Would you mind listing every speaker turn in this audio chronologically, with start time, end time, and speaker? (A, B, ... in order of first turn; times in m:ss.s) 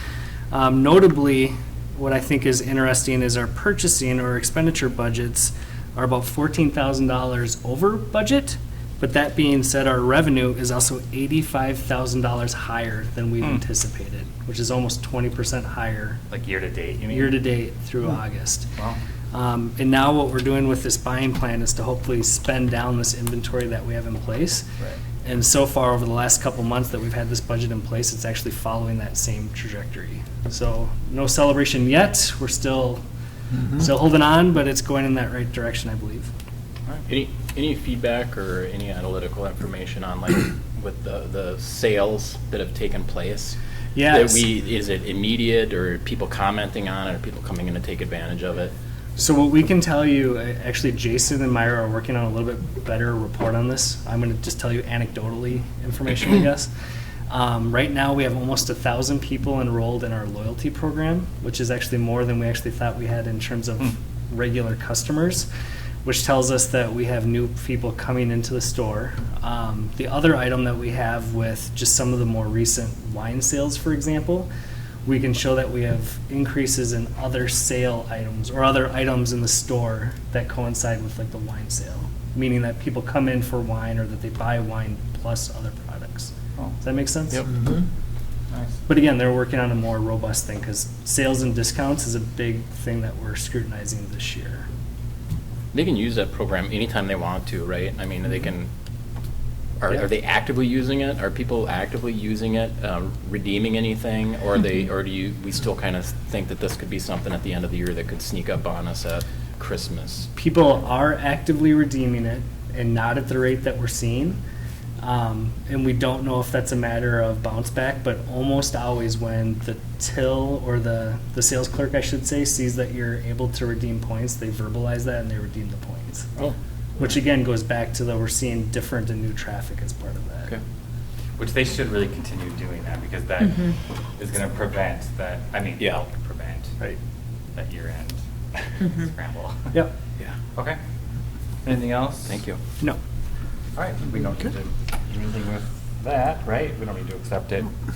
0:00.5-0:16.2 A
0:16.3-0:17.4 B
0:17.1-0:18.7 A
0:18.8-0:19.0 B
0:19.3-0:24.7 A
0:25.2-0:33.0 A
0:33.7-0:36.3 A
0:37.1-0:43.6 C
0:44.0-0:44.5 A
0:44.1-0:48.7 C
0:49.2-0:56.7 A
0:57.3-1:05.5 A
1:06.0-1:14.5 A
1:15.1-1:27.5 A
1:28.5-1:28.8 B
1:28.9-1:34.7 A
1:35.7-1:38.7 C
1:39.8-1:50.3 C
1:50.4-1:54.4 A
1:55.0-2:06.3 A
2:07.0-2:10.5 A
2:11.4-2:16.8 B
2:15.8-2:16.1 C
2:17.6-2:18.2 B
2:18.8-2:19.8 B
2:21.6-2:22.4 B
2:22.3-2:22.6 C
2:23.8-2:27.7 B